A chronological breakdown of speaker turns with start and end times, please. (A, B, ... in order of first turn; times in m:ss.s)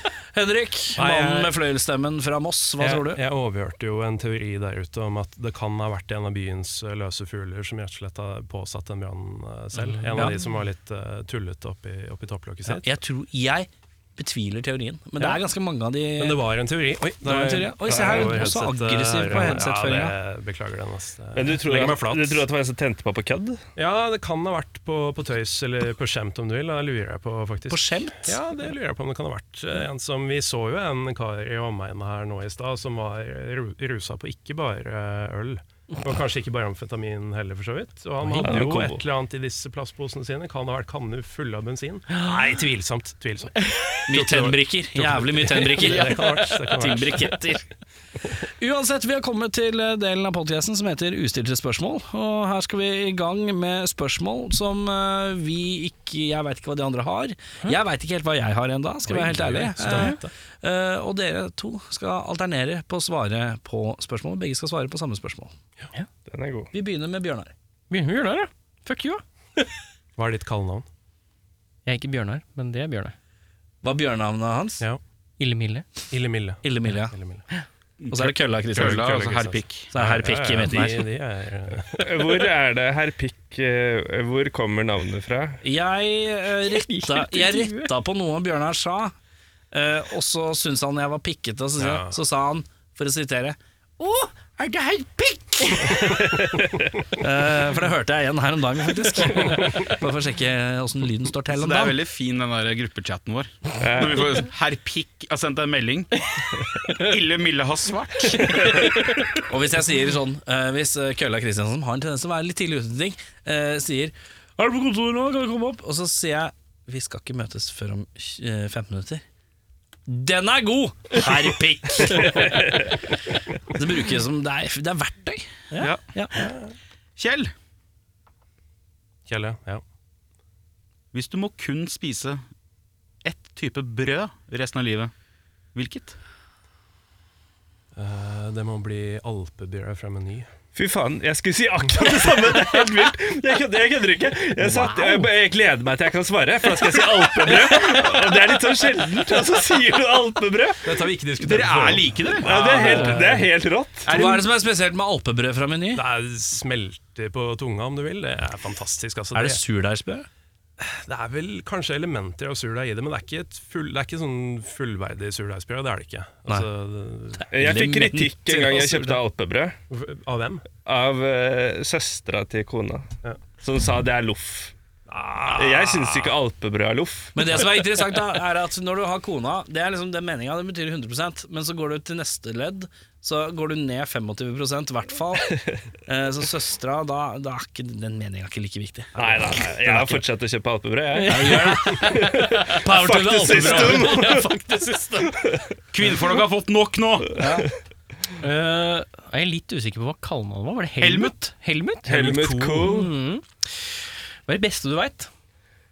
0:00.3-0:03.2 A
0:01.0-0:01.5 B
0:02.8-0:12.8 B
0:10.1-0:10.4 A
0:12.6-0:16.4 A
0:16.2-0:22.4 B
0:17.2-0:20.1 A
0:17.9-0:18.4 C
0:21.3-0:23.6 C
0:23.8-0:47.3 B
0:27.7-0:28.4 A
0:38.2-0:38.6 A
0:38.4-0:39.0 C
0:44.1-0:47.6 A
0:48.6-1:05.5 A
0:59.1-1:00.3 B
1:06.3-1:06.7 C
1:06.7-1:07.5 A
1:07.9-1:09.6 D
1:10.2-1:10.8 B
1:11.8-1:13.1 D
1:13.8-1:14.8 A
1:15.4-1:15.8 D
1:16.1-1:17.4 B
1:16.6-1:17.1 A
1:18.0-1:19.9 E
1:18.1-1:19.3 A
1:18.7-1:22.1 B
1:19.9-1:21.1 A
1:22.0-1:25.6 C
1:25.6-1:29.1 A
1:26.7-1:27.9 D
1:29.7-1:36.1 A
1:31.8-1:32.1 B
1:36.0-1:36.9 C
1:37.2-1:42.0 A
1:41.5-1:46.1 E
1:43.8-1:44.3 C
1:46.8-1:48.7 E
1:48.5-1:48.8 C
1:49.5-1:59.2 A
2:00.1-2:02.6 A
2:02.4-2:02.8 C
2:03.7-2:06.4 A
2:07.2-2:07.5 E
2:09.3-2:09.8 B
2:11.1-2:12.4 E
2:13.2-2:15.1 E
2:15.7-2:16.2 E
2:18.0-2:20.5 B
2:20.7-2:30.9 C
2:24.6-2:25.2 D
2:30.8-2:33.4 B
2:31.4-2:33.0 E
2:32.4-2:34.1 C
2:34.0-2:34.5 E
2:34.1-2:36.0 A
2:35.9-2:39.6 B
2:39.3-2:40.3 A
2:40.8-2:47.4 B
2:47.4-2:49.2 A
2:47.5-2:49.8 C
2:49.9-2:50.6 B
2:50.8-2:53.1 C
2:53.6-2:54.7 C
2:55.1-2:56.2 B
2:55.5-2:57.5 C
2:57.4-3:09.2 A
3:09.2-3:14.5 C
3:09.8-3:10.2 A
3:11.1-3:15.3 D
3:11.3-3:12.1 A
3:12.8-3:14.4 A
3:15.3-3:15.6 C
3:15.9-3:17.4 E
3:17.4-3:17.7 A
3:18.4-3:22.2 D
3:21.0-3:21.3 E
3:22.0-3:23.1 C
3:22.1-3:22.9 B
3:22.8-3:23.8 D
3:24.5-3:25.3 D